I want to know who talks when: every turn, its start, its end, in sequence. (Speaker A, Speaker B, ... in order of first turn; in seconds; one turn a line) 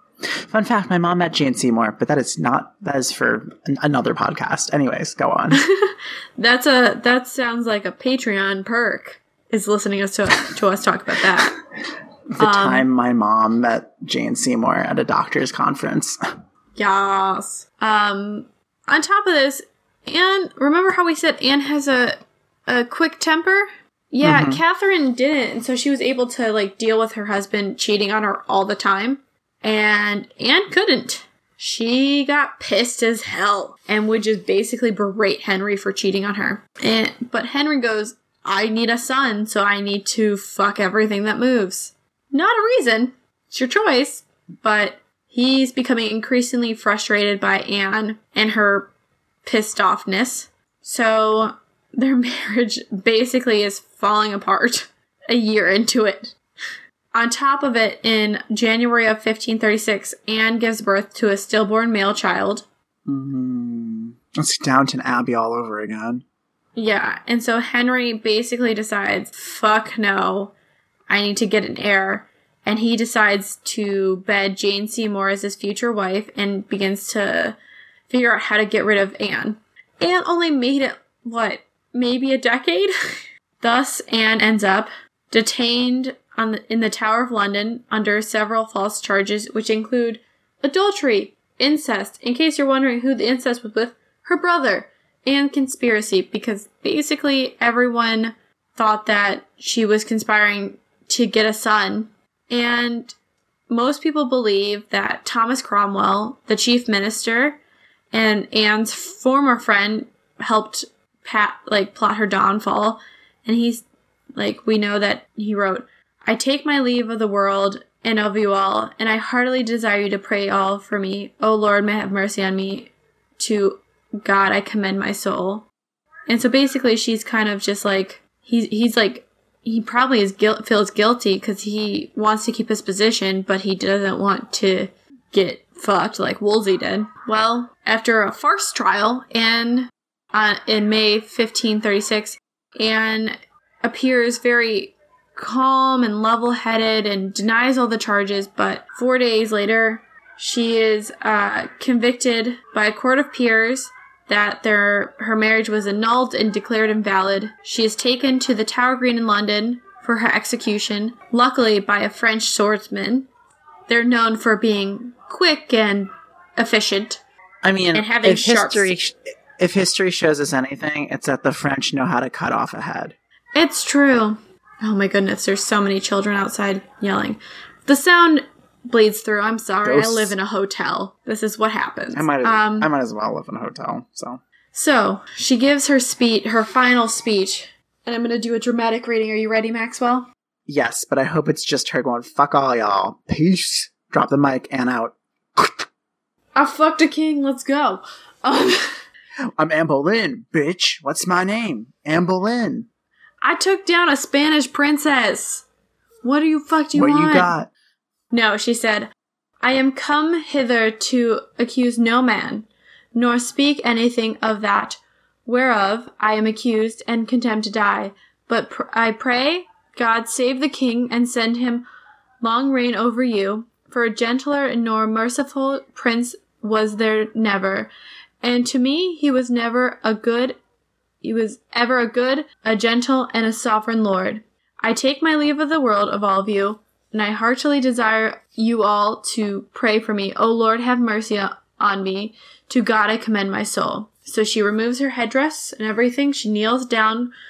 Speaker A: 0.4-5.6
Speaker B: 5.5-11.6
Speaker A: 12.3-16.2
Speaker B: 12.4-12.9
Speaker B: 16.8-48.9
Speaker A: 24.2-24.6
Speaker B: 49.5-56.4
Speaker B: 57.1-62.7
Speaker A: 63.1-66.2
Speaker B: 66.8-70.5
Speaker B: 71.1-77.6
Speaker B: 78.1-82.9
Speaker B: 83.6-103.1
Speaker B: 103.7-107.6
Speaker B: 108.1-113.8
Speaker B: 114.4-125.7
Speaker B: 126.3-163.3
Speaker B: 163.9-167.2
Speaker A: 167.6-173.2
Speaker B: 167.9-168.9
Speaker B: 173.6-182.9
Speaker A: 179.8-180.4
Speaker A: 182.1-184.4
Speaker B: 184.7-190.3
Speaker A: 190.7-195.9
Speaker B: 196.6-199.0
Speaker A: 199.6-202.9
Speaker B: 203.4-205.6
Speaker B: 206.2-207.5
Speaker A: 206.9-207.7
Speaker B: 208.3-221.9
Speaker B: 222.4-227.9
Speaker B: 228.4-230.6
Speaker B: 231.2-247.3